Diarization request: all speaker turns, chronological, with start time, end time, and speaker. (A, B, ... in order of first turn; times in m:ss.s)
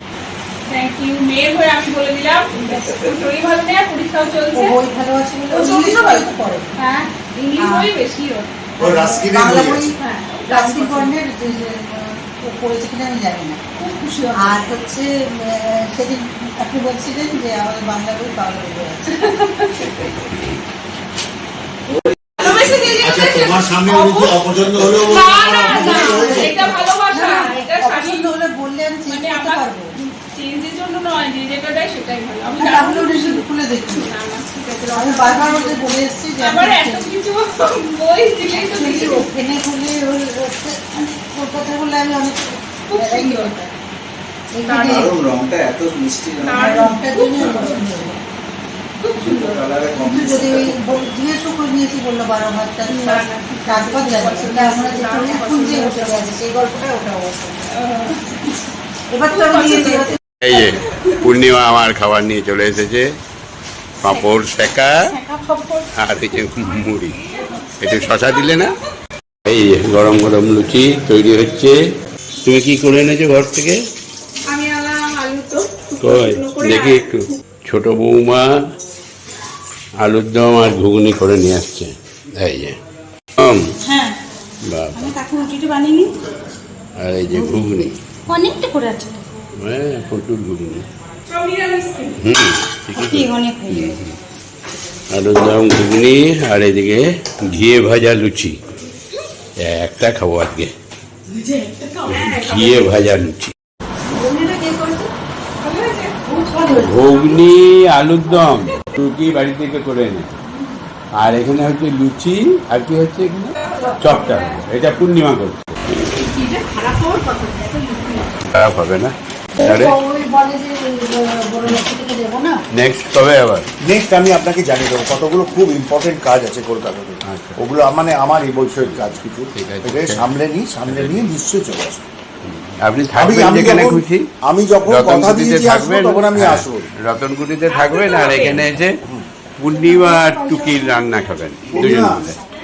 0:00.7-0:04.7 A
0:04.5-0:06.8 B
0:05.5-0:08.6 A
0:07.6-0:07.9 B
0:08.8-0:09.9 C
0:08.8-0:13.6 B
0:10.0-0:11.6 A
0:13.8-0:14.7 A
0:14.3-0:19.2 B
0:19.1-0:19.9 A
0:20.3-0:20.6 D
0:22.4-0:28.2 A
0:23.0-0:26.8 C
0:25.7-0:29.9 B
0:29.1-0:39.3 A
0:32.5-0:34.1 B
0:34.9-0:37.1 B
0:38.5-0:43.7 B
0:42.9-0:43.6 A
0:44.5-0:45.1 B
0:44.6-0:45.1 A
0:44.8-0:46.8 E
0:46.4-0:48.1 A
0:46.5-0:48.2 B
0:49.0-0:49.6 A
0:49.2-0:50.9 E
0:50.0-0:57.7 B
0:52.8-0:56.3 A
0:57.7-0:58.5 A
0:59.1-1:00.2 B
0:59.3-1:01.2 A
1:00.4-1:03.1 D
1:04.0-1:05.0 D
1:05.2-1:05.8 B
1:06.0-1:07.2 D
1:07.2-1:08.7 A
1:07.8-1:08.7 D
1:09.4-1:11.8 D
1:12.3-1:13.8 D
1:14.5-1:17.4 A
1:16.0-1:18.6 D
1:20.0-1:22.8 D
1:23.4-1:23.7 D
1:24.7-1:25.1 D
1:25.1-1:26.0 B
1:25.7-1:26.0 A
1:27.0-1:27.9 D
1:28.3-1:29.2 B
1:29.6-1:30.8 D
1:31.3-1:32.2 A
1:32.2-1:34.1 D
1:33.0-1:33.9 B
1:35.1-1:38.6 D
1:39.6-1:40.7 D
1:41.3-1:42.0 B
1:42.0-1:42.9 A
1:42.1-1:43.5 D
1:44.0-1:45.1 B
1:45.6-1:46.2 A
1:46.2-1:47.2 B
1:46.8-1:50.4 D
1:51.2-1:55.9 D
1:53.6-1:54.6 A
1:56.1-1:58.3 A
1:56.7-1:57.5 B
1:58.5-2:00.0 D
1:59.6-2:02.6 B
2:02.7-2:03.7 D
2:03.8-2:12.1 C
2:07.2-2:07.6 D
2:08.8-2:10.2 D
2:10.9-2:11.2 D
2:12.4-2:14.3 D
2:13.1-2:16.9 C
2:14.9-2:19.0 D
2:17.7-2:18.6 A
2:19.6-2:22.3 D
2:19.7-2:21.0 B
2:21.7-2:22.3 C